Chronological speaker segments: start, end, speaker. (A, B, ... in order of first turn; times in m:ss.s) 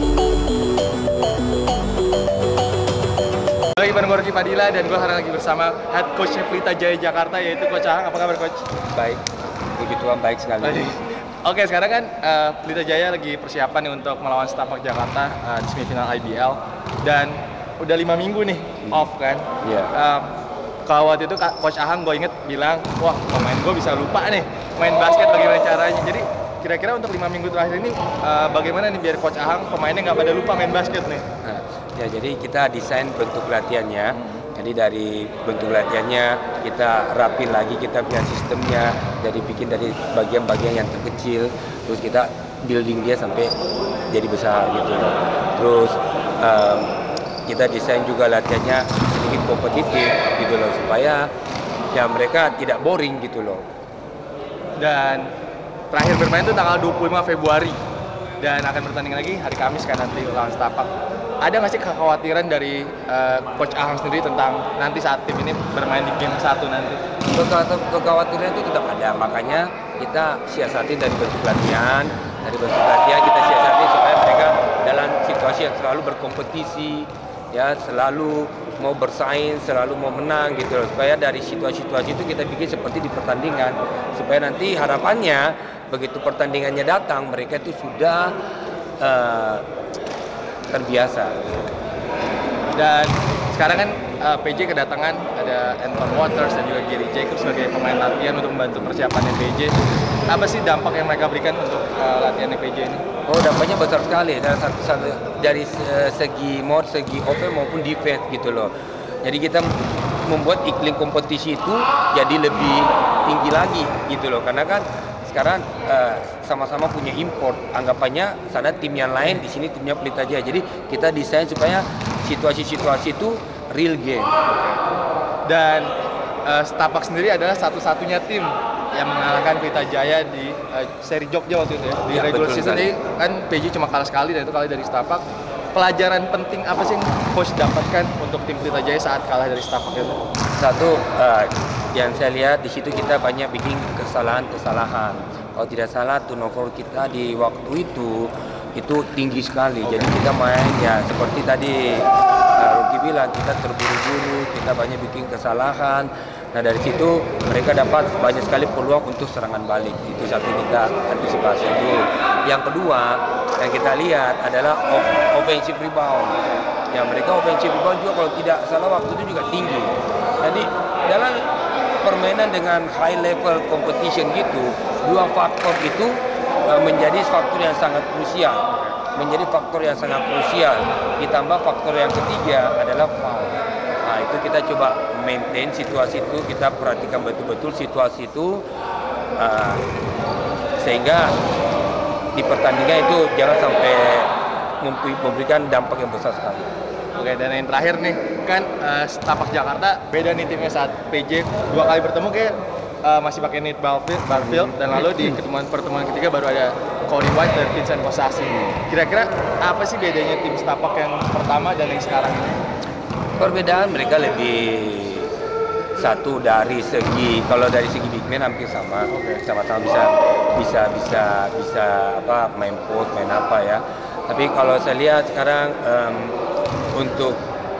0:03.8-0:08.7 A
0:08.9-0:09.2 B
0:09.8-0:11.0 B
0:10.6-0:20.4 A
0:19.6-0:19.9 B
0:20.9-0:31.3 A
0:31.4-0:43.5 B
0:44.1-0:46.9 B
0:47.5-0:51.3 B
0:51.9-0:53.6 B
0:54.8-0:55.3 A
0:55.9-0:57.8 A
0:58.4-1:00.9 A
1:01.4-1:07.0 A
1:07.3-1:28.3 B
1:29.0-1:29.7 B
1:30.7-1:31.6 B
1:32.8-1:39.7 A
1:40.3-1:43.0 A
1:43.3-1:48.7 B
1:49.2-1:49.7 B
1:50.2-2:04.3 B
2:05.5-2:05.9 A
2:06.4-2:20.2 A
2:12.1-2:12.9 B
2:20.6-2:46.4 B
2:29.8-2:30.1 A
2:46.9-2:51.5 B
2:52.0-3:08.6 B
3:09.4-3:09.8 B
3:10.8-3:11.3 B
3:12.3-3:16.7 B
3:17.2-3:32.6 A
3:24.4-3:25.4 B
3:28.5-3:28.8 B
3:33.4-3:35.3 B
3:36.0-3:46.4 B
3:39.1-3:39.4 A
3:46.9-3:47.4 B